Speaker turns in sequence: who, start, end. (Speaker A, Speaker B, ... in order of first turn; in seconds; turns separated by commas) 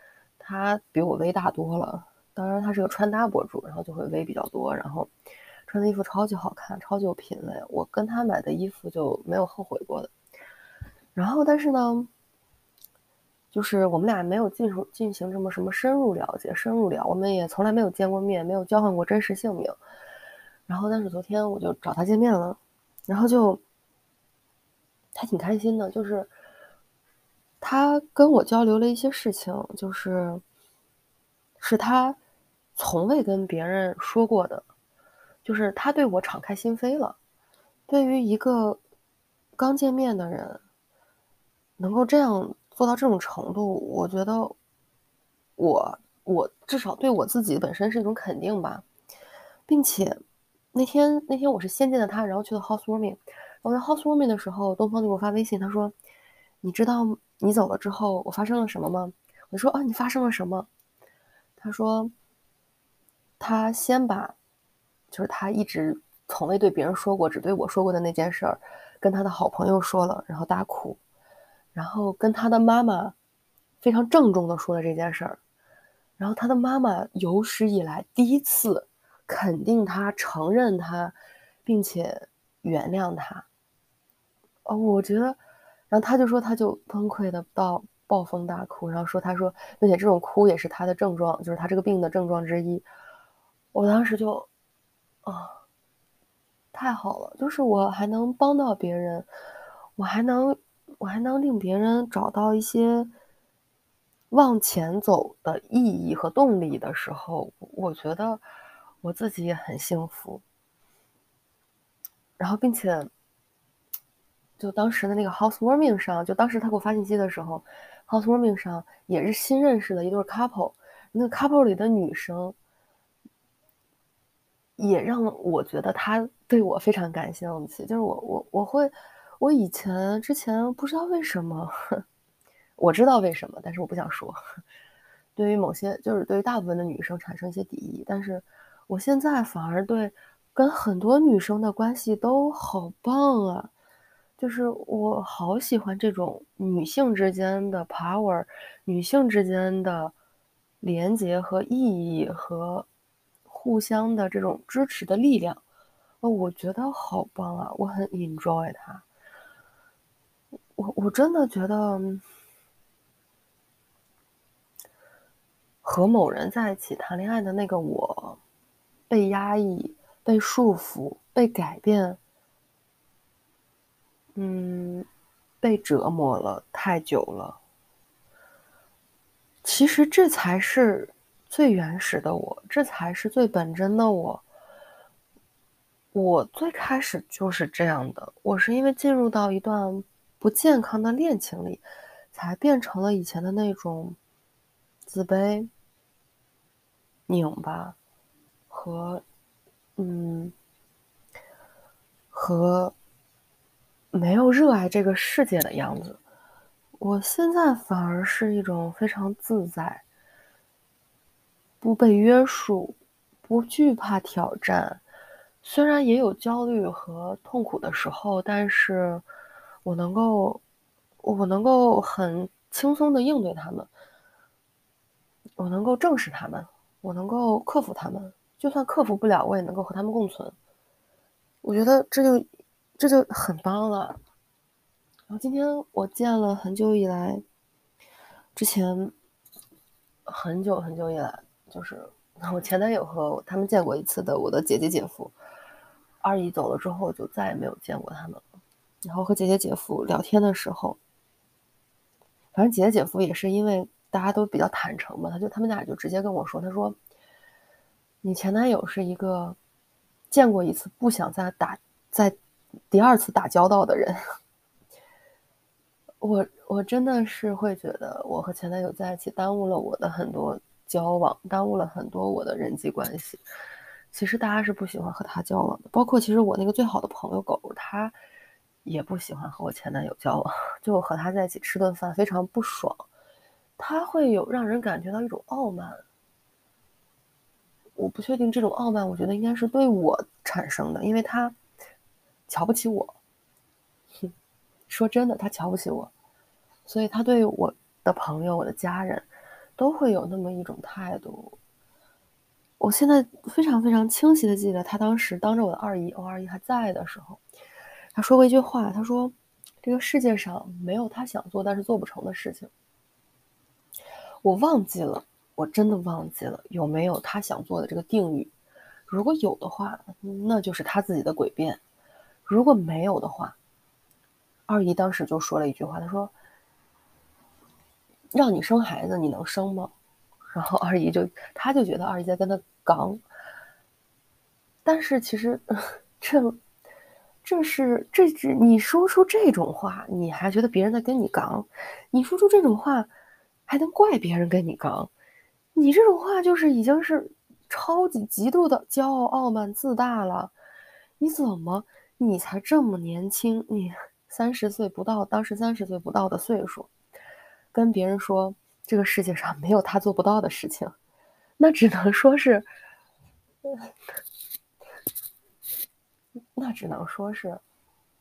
Speaker A: 0.4-5.1, Speaker A: 5.7-10.1, Speaker A: 11.1-12.1, Speaker A: 13.5-19.8, Speaker A: 20.7-23.6, Speaker A: 25.1-26.3, Speaker A: 27.6-30.4, Speaker A: 31.6-32.2, Speaker A: 32.8-34.6, Speaker A: 35.4-37.2, Speaker A: 37.9-38.8, Speaker A: 39.6-40.6, Speaker A: 41.8-44.5, Speaker A: 45.6-48.8, Speaker A: 49.7-50.2, Speaker A: 50.7-55.9, Speaker A: 56.6-60.7, Speaker A: 61.6-62.1, Speaker A: 63.4-64.3, Speaker A: 65.1-71.0, Speaker A: 71.7-73.1, Speaker A: 73.8-75.4, Speaker A: 76.2-83.5, Speaker A: 84.7-85.4, Speaker A: 85.9-92.8, Speaker A: 93.7-94.5, Speaker A: 95.2-95.6, Speaker A: 96.7-99.3, Speaker A: 100.0-103.1, Speaker A: 104.3-108.4, Speaker A: 109.0-110.4, Speaker A: 112.4-113.1, Speaker A: 114.6-122.5, Speaker A: 124.8-132.0, Speaker A: 132.8-134.4, Speaker A: 135.3-143.7, Speaker A: 144.4-150.1, Speaker A: 150.8-152.9, Speaker A: 153.5-155.6, Speaker A: 156.2-159.0, Speaker A: 160.8-162.2, Speaker A: 165.8-168.4, Speaker A: 169.1-172.2, Speaker A: 174.3-175.1, Speaker A: 175.6-177.6, Speaker A: 179.6-184.4, Speaker A: 186.1-194.2, Speaker A: 195.1-195.7, Speaker A: 197.3-198.0, Speaker A: 198.7-199.2, Speaker A: 200.0-200.5, Speaker A: 202.3-202.9, Speaker A: 204.1-206.2, Speaker A: 207.0-210.0, Speaker A: 211.8-215.0, Speaker A: 215.6-219.2, Speaker A: 219.8-220.6, Speaker A: 221.2-223.9, Speaker A: 225.6-230.5, Speaker A: 231.6-232.4, Speaker A: 233.0-234.2, Speaker A: 235.3-237.4, Speaker A: 238.5-239.1, Speaker A: 240.2-245.3, Speaker A: 246.2-248.4, Speaker A: 249.0-251.0, Speaker A: 252.5-257.0, Speaker A: 258.2-259.6, Speaker A: 260.3-262.4, Speaker A: 262.9-264.2, Speaker A: 266.2-273.4, Speaker A: 274.1-278.1, Speaker A: 278.8-283.1, Speaker A: 283.8-286.0, Speaker A: 287.9-291.6, Speaker A: 292.5-293.1, Speaker A: 294.9-296.1, Speaker A: 296.9-301.6, Speaker A: 302.8-307.4, Speaker A: 308.1-312.7, Speaker A: 314.4-318.5, Speaker A: 319.1-321.8, Speaker A: 322.4-323.6, Speaker A: 324.7-326.3, Speaker A: 328.3-329.9, Speaker A: 330.5-333.2, Speaker A: 334.8-336.6, Speaker A: 337.4-343.1, Speaker A: 343.7-345.1, Speaker A: 345.7-350.5, Speaker A: 351.2-356.9, Speaker A: 357.7-360.9, Speaker A: 361.6-362.7, Speaker A: 366.6-367.6